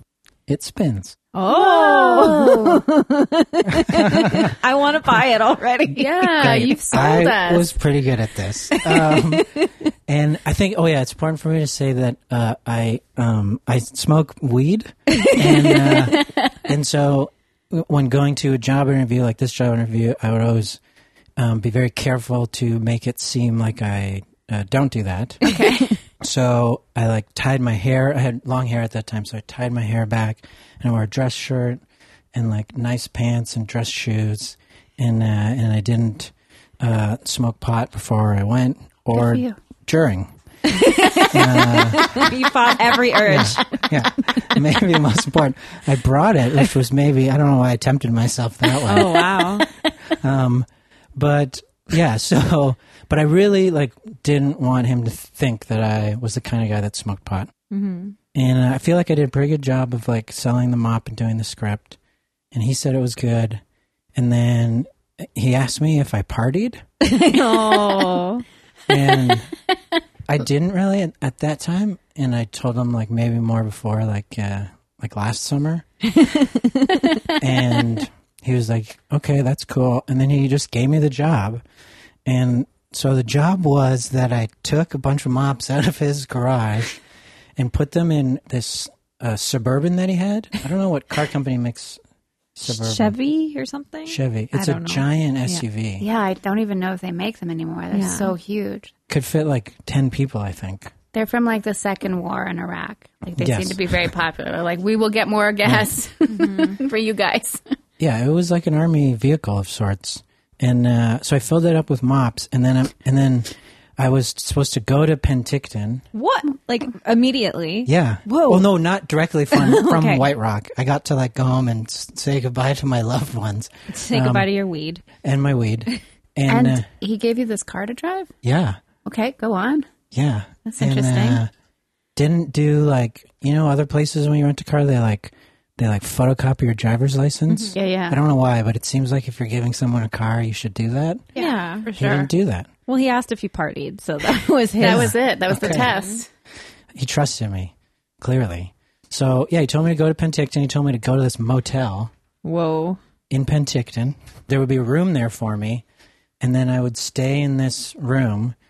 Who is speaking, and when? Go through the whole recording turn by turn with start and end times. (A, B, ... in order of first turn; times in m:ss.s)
0:00.5-0:01.2 A
0:01.3-0:06.7 B
0:01.5-0:02.8 C
0:03.8-0:04.5 A
0:06.0-0:07.7 C
0:06.4-0:20.8 A
0:08.7-0:09.7 B
0:15.1-0:16.0 B
0:21.4-0:25.5 A
0:25.4-0:25.9 B
0:25.4-0:25.9 C
0:26.2-0:31.8 A
0:32.3-0:40.3 A
0:39.1-0:39.6 C
0:40.7-0:44.4 B
0:41.3-0:42.3 A
0:43.2-0:57.5 A
0:48.8-0:49.7 B
0:57.7-0:58.2 B
0:58.3-1:02.0 A
1:02.5-1:03.6 A
1:04.1-1:06.8 A
1:07.0-1:08.4 B
1:08.9-1:09.5 A
1:10.3-1:15.8 A
1:16.1-1:17.2 B
1:17.4-1:21.6 A
1:22.2-1:27.0 A
1:27.6-1:32.0 A
1:32.5-1:33.1 A
1:32.7-1:35.6 B
1:34.1-1:36.0 A
1:36.0-1:38.9 C
1:37.9-1:38.3 B
1:39.1-1:40.9 A
1:41.1-1:47.6 C
1:43.4-1:44.0 A
1:46.3-1:46.8 B
1:48.0-1:56.0 A
1:56.1-1:58.6 B
1:57.8-2:04.5 A
1:59.5-2:00.3 B
2:03.9-2:05.0 B
2:05.2-2:06.8 A
2:06.5-2:08.3 C
2:08.4-2:08.8 A
2:09.0-2:09.8 C
2:10.1-2:11.5 A
2:10.6-2:11.4 C
2:12.2-2:21.3 A
2:17.5-2:17.8 B
2:17.7-2:18.2 C
2:21.3-2:22.3 C
2:21.4-2:21.9 B
2:22.0-2:22.7 A
2:22.9-2:26.2 B
2:24.8-2:26.3 C
2:24.8-2:25.9 A
2:26.9-2:32.1 A
2:32.4-2:33.0 B
2:33.3-2:35.8 A
2:36.4-2:38.6 A